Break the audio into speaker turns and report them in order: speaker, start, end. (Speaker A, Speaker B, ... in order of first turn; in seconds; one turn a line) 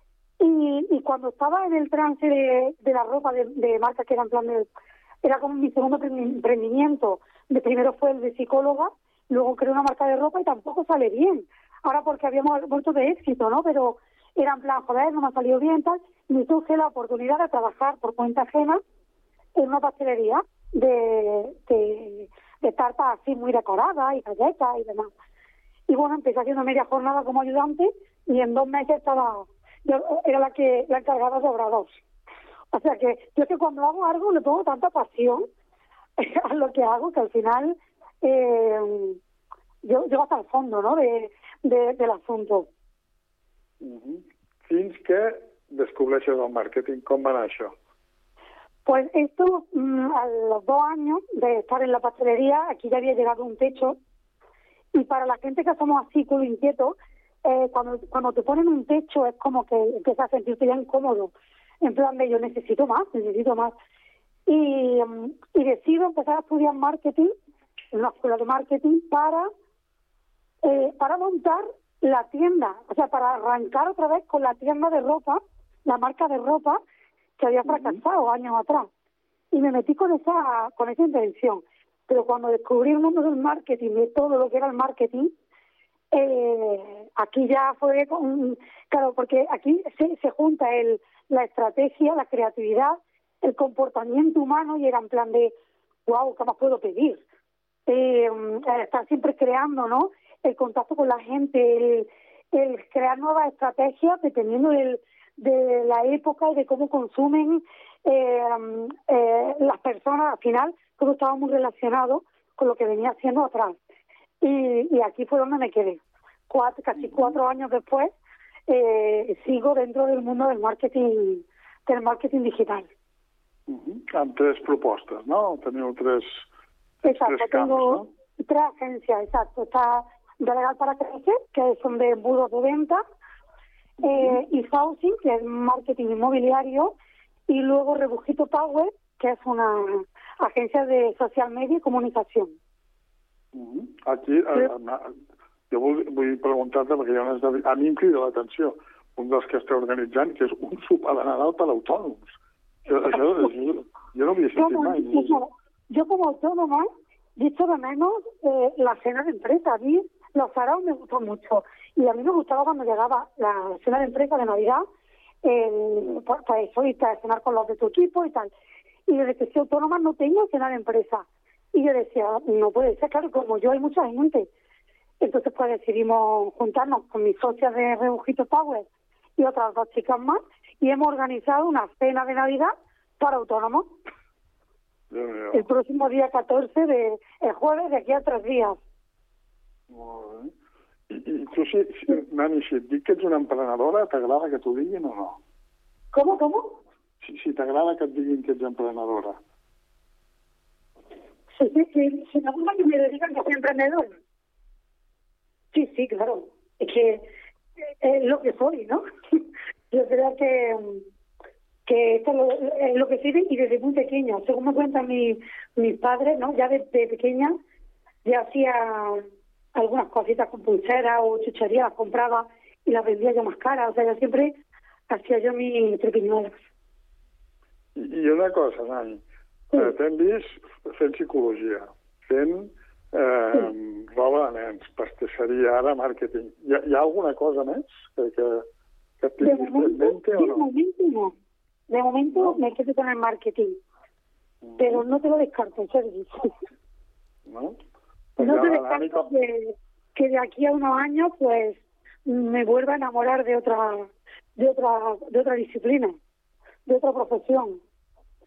Speaker A: 0.4-4.7
Speaker A: 5.2-18.8
Speaker A: 19.6-25.1
Speaker A: 25.9-32.0
Speaker A: 32.7-35.5
Speaker A: 36.2-39.2
Speaker A: 39.8-42.7
Speaker B: 43.8-47.7
Speaker A: 48.9-54.0
Speaker A: 54.9-63.8
Speaker A: 64.5-67.3
Speaker A: 67.9-69.5
Speaker A: 70.6-76.8
Speaker A: 77.4-78.9
Speaker B: 77.7-78.0
Speaker A: 79.5-85.3
Speaker A: 86.1-95.5
Speaker A: 96.1-97.2
Speaker A: 97.9-113.8
Speaker A: 114.4-118.1
Speaker B: 117.0-117.4
Speaker A: 118.7-122.9
Speaker B: 123.7-126.5
Speaker B: 127.0-128.1
Speaker A: 127.0-133.0
Speaker A: 134.0-136.9
Speaker B: 134.0-134.4
Speaker A: 137.5-142.6
Speaker B: 143.6-145.1
Speaker B: 145.7-152.3
Speaker B: 152.9-155.4
Speaker A: 153.1-153.5
Speaker A: 154.6-164.8
Speaker A: 165.4-168.5
Speaker A: 169.1-174.5
Speaker A: 175.2-183.9
Speaker B: 185.1-185.7
Speaker A: 185.5-188.8
Speaker B: 189.9-190.5
Speaker B: 191.1-195.4
Speaker A: 196.1-196.8
Speaker B: 197.2-199.4
Speaker A: 201.6-204.2
Speaker A: 205.7-207.3
Speaker A: 208.0-209.0
Speaker A: 209.9-211.0
Speaker A: 211.9-217.6
Speaker A: 218.2-219.2
Speaker A: 219.8-224.5
Speaker A: 225.1-226.6
Speaker B: 228.0-229.2
Speaker B: 229.7-238.7
Speaker B: 239.2-240.7
Speaker A: 239.4-241.3
Speaker A: 241.9-243.8
Speaker B: 242.3-242.6
Speaker B: 244.6-245.1
Speaker A: 244.8-246.5
Speaker B: 247.5-247.8
Speaker B: 248.4-249.3
Speaker A: 248.4-256.2
Speaker A: 256.9-257.8